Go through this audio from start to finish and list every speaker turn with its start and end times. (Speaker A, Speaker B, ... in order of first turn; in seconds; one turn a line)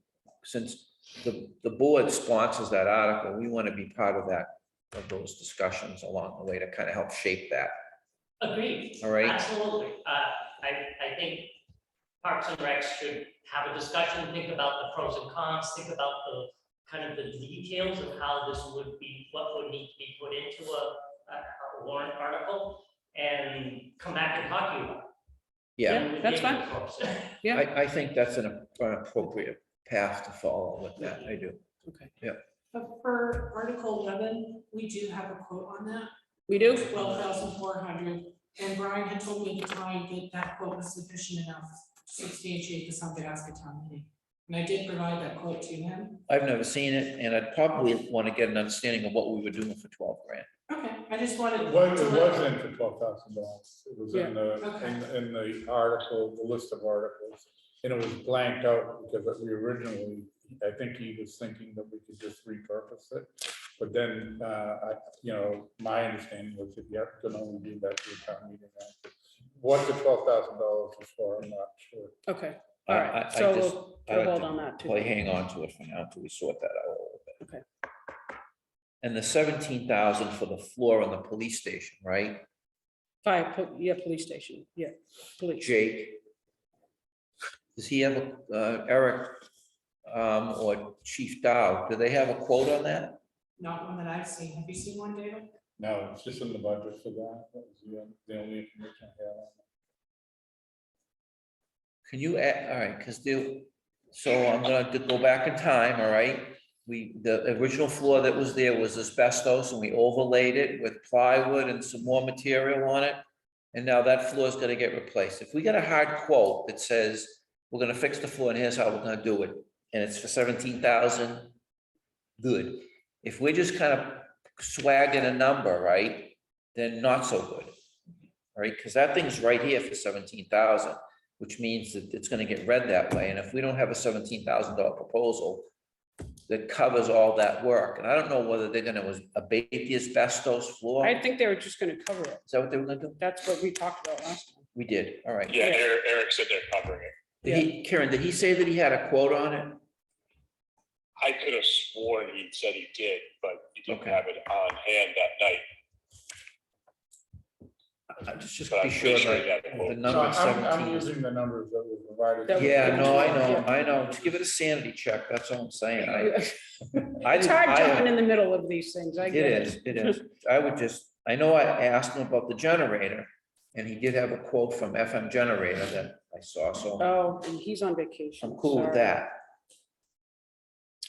Speaker A: 0.4-7.7
Speaker B: 8.4-11.5
Speaker A: 9.0-9.4
Speaker B: 12.2-25.1
Speaker A: 25.8-26.1
Speaker C: 25.9-26.7
Speaker B: 25.9-27.3
Speaker A: 27.5-31.6
Speaker B: 31.0-31.3
Speaker C: 31.9-32.1
Speaker D: 32.7-36.1
Speaker C: 36.5-36.9
Speaker D: 36.8-46.2
Speaker A: 46.3-50.5
Speaker D: 47.7-47.9
Speaker D: 50.7-52.4
Speaker E: 51.6-72.2
Speaker C: 54.1-54.4
Speaker D: 54.6-55.0
Speaker C: 72.3-75.1
Speaker A: 72.9-77.4
Speaker A: 79.0-82.5
Speaker C: 83.2-85.7
Speaker A: 85.6-86.2
Speaker A: 87.8-89.4
Speaker A: 90.1-93.2
Speaker D: 93.6-95.5
Speaker E: 95.8-99.6
Speaker A: 102.1-113.2
Speaker A: 113.7-121.5
Speaker A: 122.4-127.7
Speaker A: 128.6-135.7
Speaker A: 136.5-141.2
Speaker C: 141.0-142.5
Speaker A: 142.5-143.2
Speaker C: 143.2-144.7
Speaker A: 144.8-145.7
Speaker F: 145.5-147.2
Speaker A: 147.4-149.8
Speaker F: 151.2-155.7
Speaker A: 153.9-154.2
Speaker A: 158.2-161.1
Speaker F: 158.7-160.2
Speaker E: 159.8-164.3
Speaker C: 162.5-163.7
Speaker A: 162.6-166.6
Speaker C: 167.0-170.2
Speaker A: 167.2-168.2
Speaker A: 169.3-177.1
Speaker C: 177.0-179.2
Speaker A: 178.4-179.4